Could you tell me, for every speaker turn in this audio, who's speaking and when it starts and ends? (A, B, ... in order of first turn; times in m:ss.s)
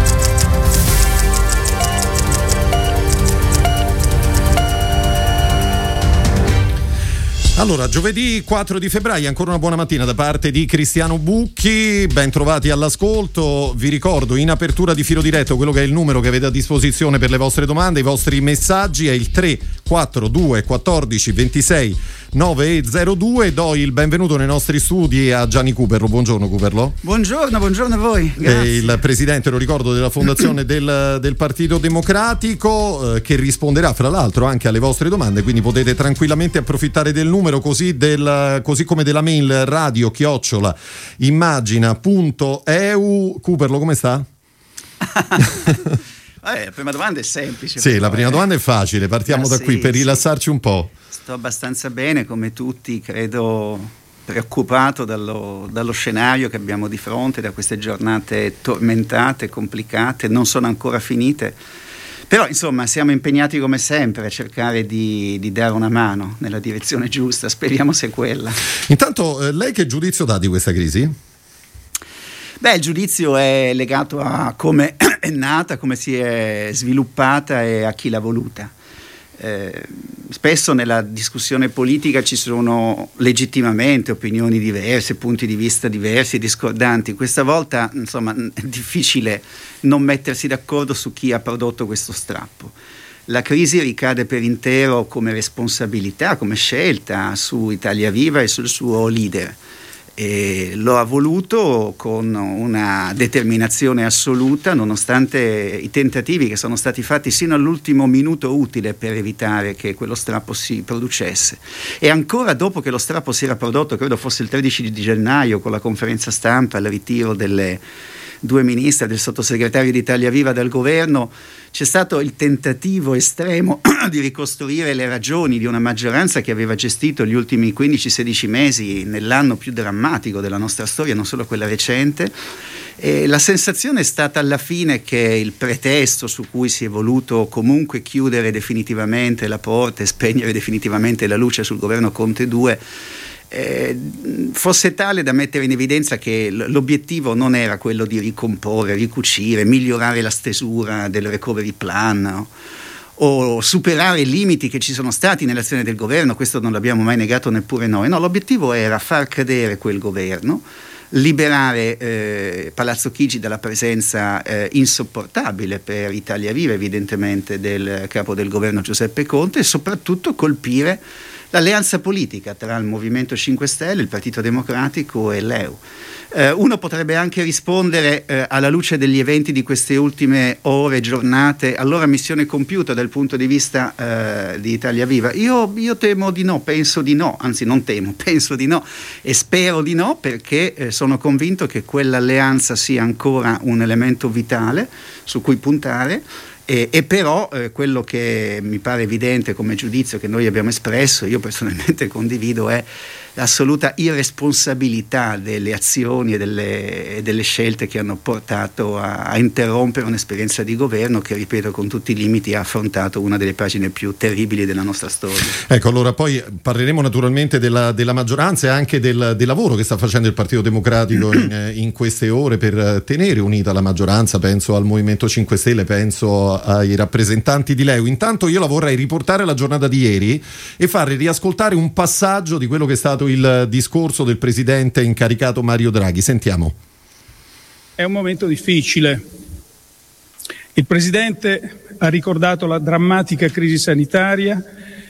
0:07.6-0:27.0 A
0:27.0-0:29.0 B
0:28.4-0:44.3 A
0:45.2-0:45.9 B
0:46.4-0:48.4 B
0:47.8-0:50.9 A
0:49.3-0:50.2 B
0:51.1-1:01.6 B
1:02.3-1:08.6 B
1:08.9-1:11.2 A
1:12.6-1:18.7 B
1:19.4-1:32.7 B
1:33.3-1:39.6 B
1:40.2-1:57.8 B
1:58.4-2:12.3 B
2:13.0-2:22.8 B
2:23.5-2:32.5 B
2:33.2-2:55.8 B
2:56.3-3:35.6 B
3:35.7-3:56.8 A
3:58.0-3:59.2 C
4:00.8-4:04.6 C